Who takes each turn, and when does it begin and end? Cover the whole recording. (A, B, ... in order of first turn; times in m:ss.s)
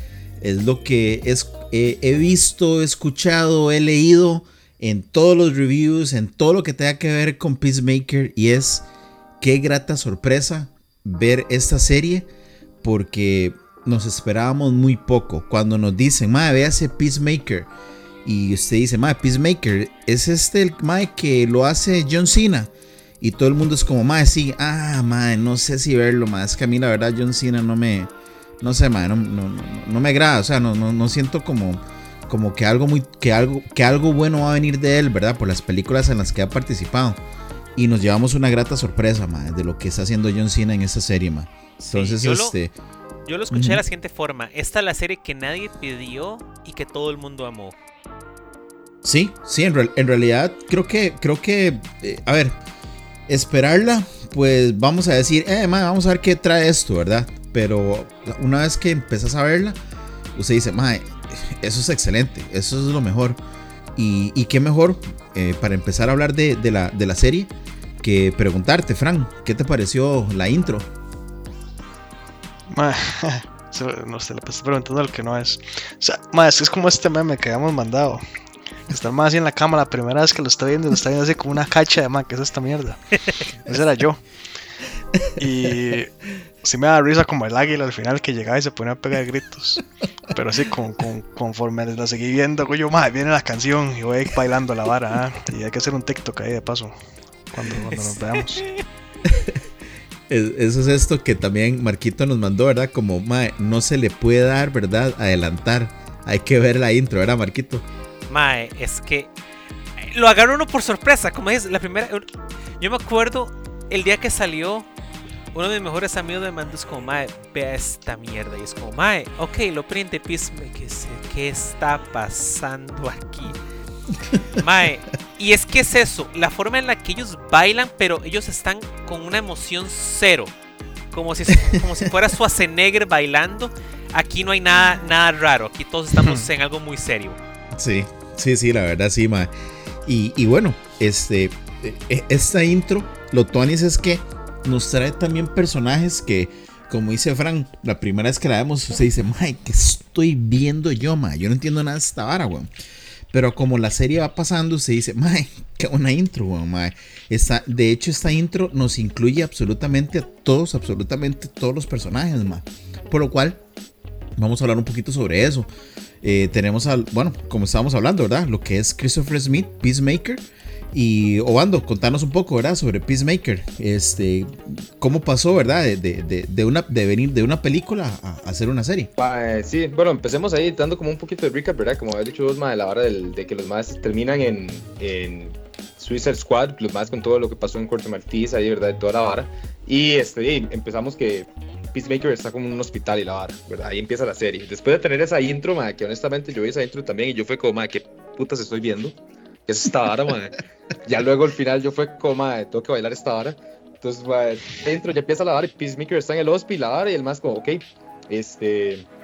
0:00.4-0:08.9 A
0:09.4-0:12.3 A
0:12.8-0:17.7 A
0:18.2-0:37.2 A
0:37.8-0:42.7 A
0:41.9-0:42.6 B
0:43.2-0:47.8 B
0:43.5-0:43.8 A
0:49.0-0:52.6 A
0:53.3-0:59.8 A
1:00.4-1:03.4 A
1:04.0-1:10.9 A
1:12.7-1:18.2 C
1:18.9-1:24.2 C
1:25.4-1:37.0 C
1:37.5-1:38.6 C
1:37.9-1:38.8 B
1:39.2-1:39.6 A
1:40.3-1:47.8 A
1:48.3-1:49.3 B
1:50.1-1:52.3 B
1:52.8-1:54.9 B
1:55.5-2:03.6 B
2:04.6-2:10.5 B
2:11.1-2:17.4 B
2:11.6-2:12.1 A
2:16.2-2:16.5 C
2:17.7-2:19.5 A
2:20.0-2:32.7 A
2:33.3-2:43.6 A
2:44.4-2:45.7 A
2:46.2-2:59.1 A
2:59.2-3:29.1 D